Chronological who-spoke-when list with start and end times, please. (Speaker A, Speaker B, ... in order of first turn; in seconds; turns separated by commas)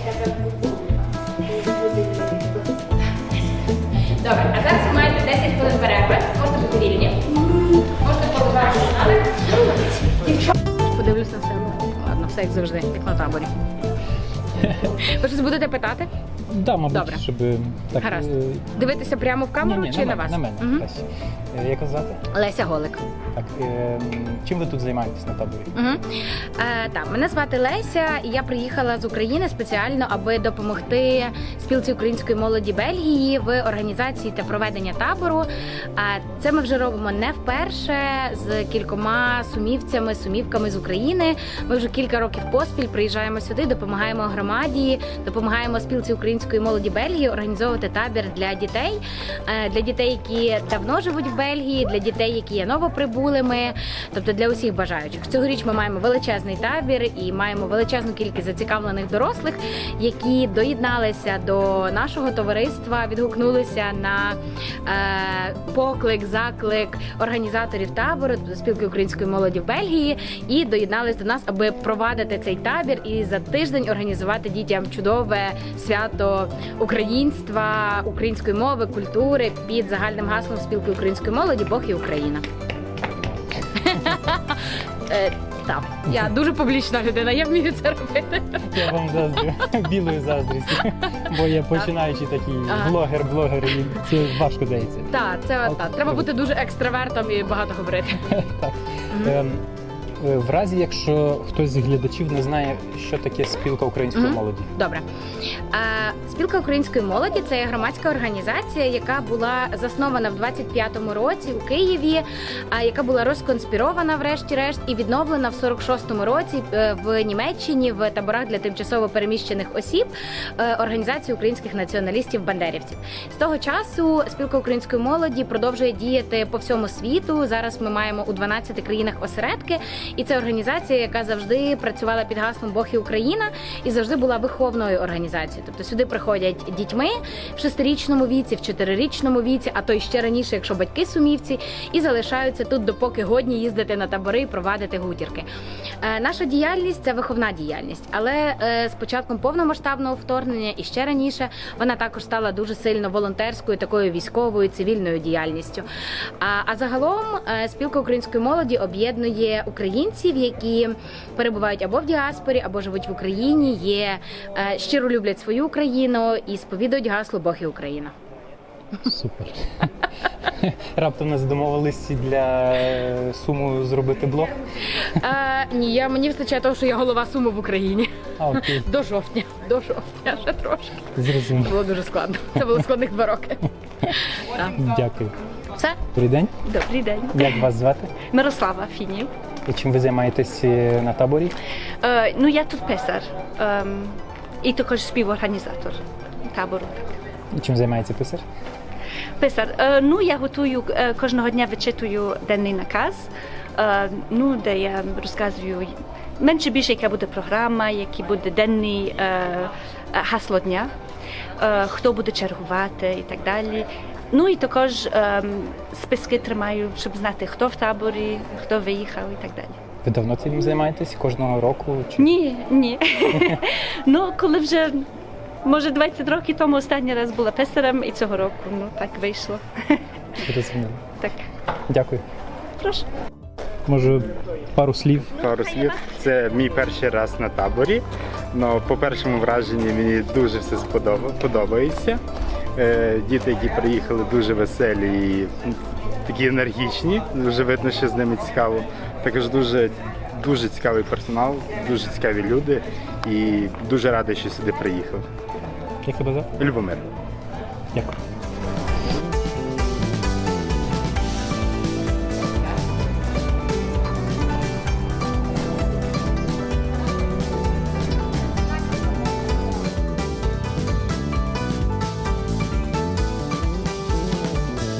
Speaker A: 4.1-13.5, Speaker B: 14.6-14.9, Speaker A: 14.9-16.1, Speaker B: 16.5-18.7, Speaker A: 16.9-17.2, Speaker A: 18.0-20.8, Speaker B: 19.6-22.2, Speaker A: 22.3-23.0, Speaker B: 23.3-25.7, Speaker A: 25.7-82.5, Speaker A: 83.8-88.8, Speaker B: 88.7-95.1, Speaker A: 92.7-93.0, Speaker A: 95.1-98.2, Speaker B: 95.7-96.3, Speaker B: 98.2-99.6, Speaker A: 99.1-99.4, Speaker B: 100.2-104.7, Speaker A: 104.1-105.0, Speaker A: 105.7-145.5, Speaker A: 146.0-155.9, Speaker A: 156.4-168.1, Speaker B: 169.0-169.9, Speaker B: 170.4-174.6, Speaker A: 175.1-184.8, Speaker B: 178.4-178.9, Speaker B: 181.1-181.8, Speaker B: 184.7-185.3, Speaker B: 186.1-186.5, Speaker C: 186.6-187.5, Speaker B: 187.3-188.2, Speaker C: 188.2-189.3, Speaker B: 189.7-191.6, Speaker C: 192.0-197.0, Speaker B: 197.5-198.4, Speaker C: 199.4-210.9, Speaker C: 211.6-219.8, Speaker B: 220.0-222.3, Speaker C: 222.2-225.1, Speaker B: 223.3-223.6, Speaker C: 225.6-230.0, Speaker B: 230.4-231.0, Speaker B: 231.9-232.2, Speaker C: 232.8-233.1, Speaker B: 233.8-235.3, Speaker D: 235.3-242.2, Speaker C: 235.4-236.1, Speaker D: 242.8-255.2, Speaker B: 256.0-256.5, Speaker D: 256.6-257.0, Speaker B: 257.9-258.2